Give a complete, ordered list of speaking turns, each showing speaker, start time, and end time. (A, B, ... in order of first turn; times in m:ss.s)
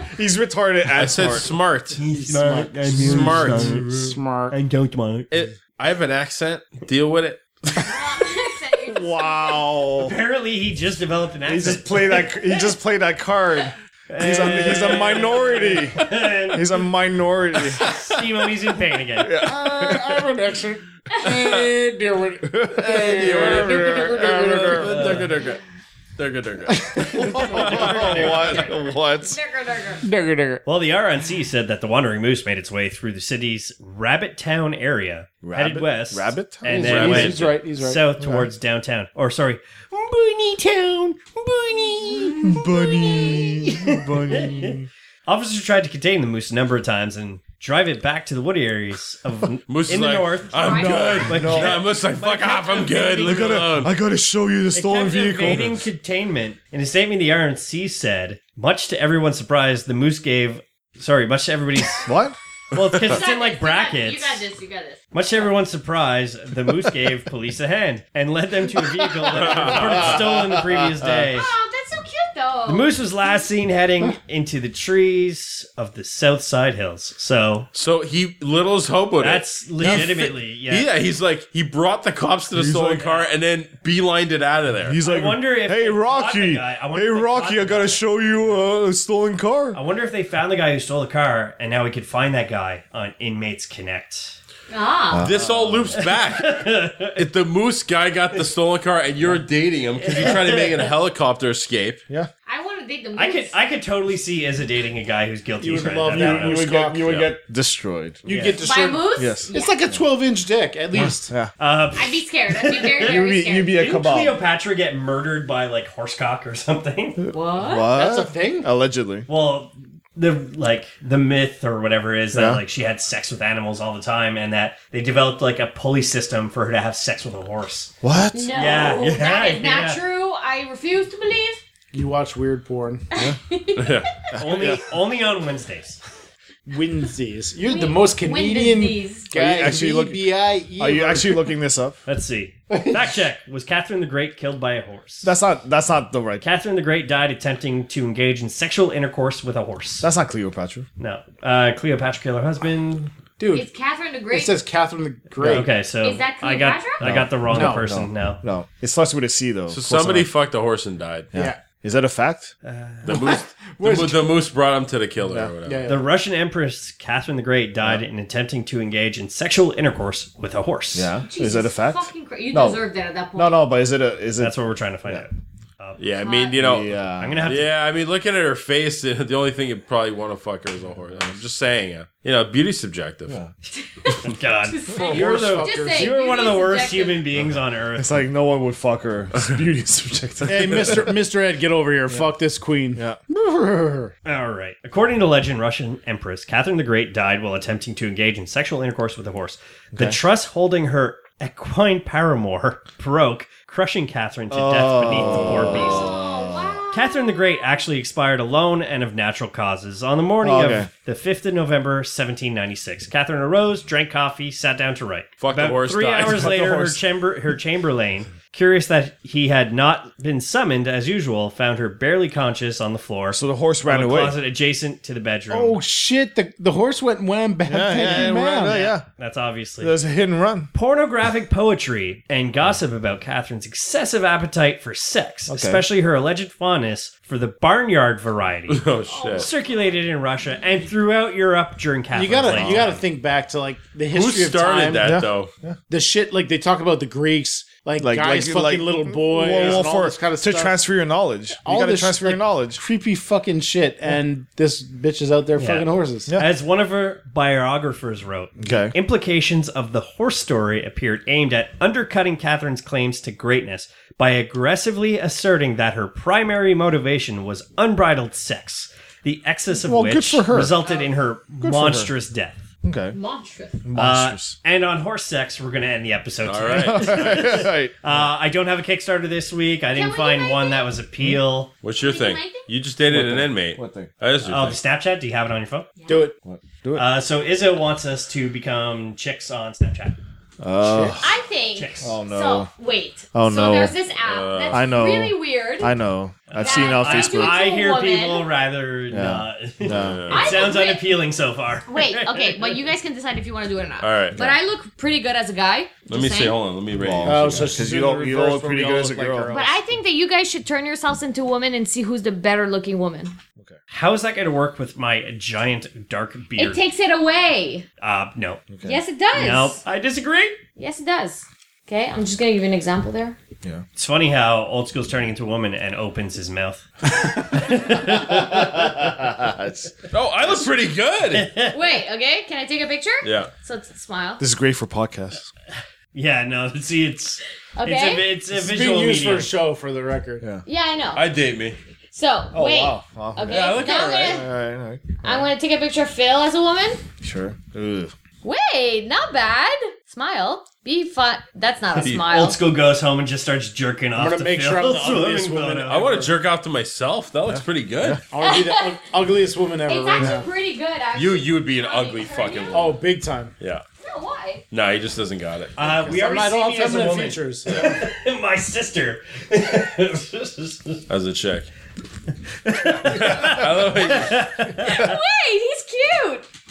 0:00.1-0:01.5 A
0:01.0-0:02.0 B
0:02.0-0:03.9 C
0:02.0-0:04.6 D
0:02.9-0:04.0 A
0:02.9-0:04.0 B
0:04.5-0:05.3 C
0:05.3-0:07.9 B
0:07.8-0:09.7 E
0:08.9-0:10.1 A
0:10.0-0:12.2 C
0:11.5-0:17.8 A
0:14.1-0:16.8 C
0:17.7-0:19.5 C
0:19.2-0:20.2 A
0:19.3-0:25.2 D
0:21.3-0:21.7 B
0:22.4-0:25.2 A
0:22.8-0:25.6 B
0:24.8-0:25.3 C
0:26.2-0:28.7 B
0:27.0-0:28.7 C
0:27.1-0:27.5 D
0:27.2-0:29.4 A
0:27.6-0:30.1 E
0:30.0-0:30.6 D
0:30.6-0:53.7 C
0:35.4-0:37.0 A
0:36.6-0:38.2 D
0:36.8-0:37.6 B
0:38.2-0:38.5 A
0:42.4-0:44.9 A
0:49.7-0:53.9 B
0:50.6-0:51.2 E
0:50.6-0:51.8 A
0:53.2-0:55.8 A
0:54.7-1:02.1 C
1:02.0-1:02.4 A
1:02.7-1:04.4 C
1:03.0-1:05.0 E
1:05.1-1:11.5 C
1:09.3-1:10.2 B
1:09.5-1:11.3 A
1:11.3-1:12.9 E
1:12.7-1:17.7 C
1:17.7-1:25.0 B
1:19.2-1:20.9 C
1:22.5-1:23.1 A
1:23.0-1:23.3 C
1:24.8-1:29.8 A
1:25.0-1:28.4 C
1:29.7-1:34.4 C
1:34.7-1:35.3 E
1:35.1-1:36.0 A
1:35.2-1:36.6 B
1:36.0-1:37.2 C
1:37.2-1:42.0 B
1:40.0-1:40.9 C
1:42.5-1:43.5 E
1:43.2-1:46.7 C
1:45.6-1:47.2 D
1:46.1-1:48.3 A
1:47.1-1:47.3 B
1:48.3-1:48.6 C
1:48.3-1:51.3 D
1:48.6-1:49.8 E
1:49.2-1:50.0 A
1:50.9-1:51.5 A
1:51.6-1:57.2 C
1:52.0-1:53.8 E
1:53.0-1:54.4 A
1:57.2-1:59.3 A
1:57.3-1:57.9 E
1:57.8-1:58.7 D
1:59.3-2:07.9 C
2:02.3-2:02.6 A
2:08.0-2:08.6 A
2:08.3-2:11.6 E
2:08.5-2:10.0 C
2:11.9-2:13.1 D
2:13.1-2:14.3 E
2:13.8-2:14.1 B
2:14.3-2:14.8 A
2:14.4-2:16.0 C
2:16.7-2:21.5 D
2:17.6-2:19.3 E
2:19.3-2:22.0 A
2:22.1-2:25.3 C
2:22.7-2:23.1 D
2:25.2-2:26.4 A
2:26.4-2:30.1 C
2:30.0-2:30.9 A
2:31.0-2:33.1 C
2:33.4-2:33.7 D
2:33.5-2:34.6 E
2:34.3-2:35.7 D
2:35.4-2:38.4 C
2:36.0-2:37.1 E
2:37.0-2:40.3 A
2:37.5-2:37.8 D
2:39.7-2:41.3 B
2:41.3-2:42.5 A
2:42.6-2:43.2 C
2:43.0-2:45.9 B
2:43.1-2:44.3 D
2:45.3-2:45.5 A
2:45.6-2:46.1 D
2:45.9-2:51.1 C
2:51.0-2:52.8 A
2:51.3-2:53.6 E
2:53.4-2:55.2 A
2:54.4-2:56.2 C
2:56.0-2:56.9 B
2:56.2-2:56.6 E
2:56.6-2:57.5 A
2:57.2-2:57.7 C
2:57.5-3:03.4 B
3:03.8-3:07.2 E
3:04.2-3:08.1 C
3:05.0-3:06.2 D
3:08.0-3:11.1 A
3:10.4-3:14.1 D
3:13.0-3:13.2 A
3:14.2-3:26.1 C
3:19.9-3:20.2 A
3:24.5-3:26.8 A
3:25.5-3:27.7 E
3:26.9-3:45.8 C
3:30.4-3:30.9 A
3:35.4-3:36.7 B
3:36.3-3:37.0 A
3:43.3-3:44.4 A
3:45.5-3:48.9 D
3:47.7-3:49.0 A
3:48.7-3:50.0 C
3:49.8-3:50.7 A
3:50.7-4:03.0 C
3:55.5-3:55.8 A
3:58.7-3:59.5 B
3:59.1-3:59.5 E
4:02.1-4:05.1 D
4:02.5-4:02.8 A
4:04.1-4:05.5 B
4:05.0-4:05.8 A
4:05.9-4:10.8 D
4:08.0-4:12.8 A
4:09.6-4:09.8 C
4:11.6-4:16.3 D
4:15.6-4:32.6 C
4:18.6-4:19.0 A
4:29.8-4:30.8 A
4:30.8-4:31.1 E
4:31.6-4:32.1 A
4:32.8-4:33.2 A
4:33.1-4:33.8 E
4:33.8-4:34.6 A
4:34.0-4:41.7 C
4:36.5-4:37.6 B
4:36.7-4:38.2 A
4:39.9-4:40.9 E
4:41.8-4:44.8 B
4:42.0-4:42.7 E
4:43.1-4:44.1 A
4:44.4-4:45.9 C
4:46.0-4:46.3 E
4:46.4-4:47.1 A
4:47.0-4:50.2 C
4:50.6-4:51.3 A
4:51.2-4:55.9 E
4:51.8-4:52.2 C
4:52.0-4:52.7 A
4:53.3-4:54.0 A
4:54.2-4:54.9 B
4:54.7-4:57.7 A
4:56.5-5:02.8 C
4:56.6-4:58.5 E
4:59.1-5:00.3 A
4:59.9-5:00.6 B
5:00.3-5:01.0 E
5:01.9-5:06.6 E
5:04.0-5:04.4 B
5:06.1-5:07.8 B
5:07.0-5:09.7 A
5:07.2-5:09.8 D
5:09.5-5:13.4 E
5:13.9-5:16.8 C
5:16.6-5:17.8 E
5:18.0-5:18.6 C
5:18.7-5:19.0 A
5:18.8-5:19.8 E
5:19.3-5:20.6 C
5:20.8-5:23.4 E
5:24.0-5:29.2 C
5:28.1-5:30.0 A
5:30.1-5:31.5 B
5:31.3-5:31.8 C
5:31.7-5:34.4 E
5:33.2-5:33.5 B
5:34.4-5:35.5 A
5:36.1-5:39.5 C
5:37.8-5:38.3 E
5:38.5-5:40.5 D
5:40.6-5:41.3 E
5:41.1-5:41.8 B
5:42.1-5:44.5 E
5:42.5-5:45.5 A
5:43.4-5:44.4 B
5:45.2-5:47.0 E
5:47.2-5:48.1 A
5:48.4-5:52.6 E
5:52.0-5:52.3 B
5:52.2-5:56.2 C
5:54.2-5:56.3 D
5:55.9-5:58.2 B
5:57.5-5:58.2 A
5:58.3-6:00.5 D
5:58.4-5:59.0 E
5:59.9-6:02.9 E
6:01.1-6:03.0 B
6:02.7-6:03.5 D
6:04.0-6:04.6 E
6:04.7-6:05.7 B
6:05.8-6:11.0 C
6:06.1-6:07.9 D
6:11.1-6:11.7 B
6:12.6-6:15.2 C
6:13.0-6:14.5 B
6:14.7-6:16.5 E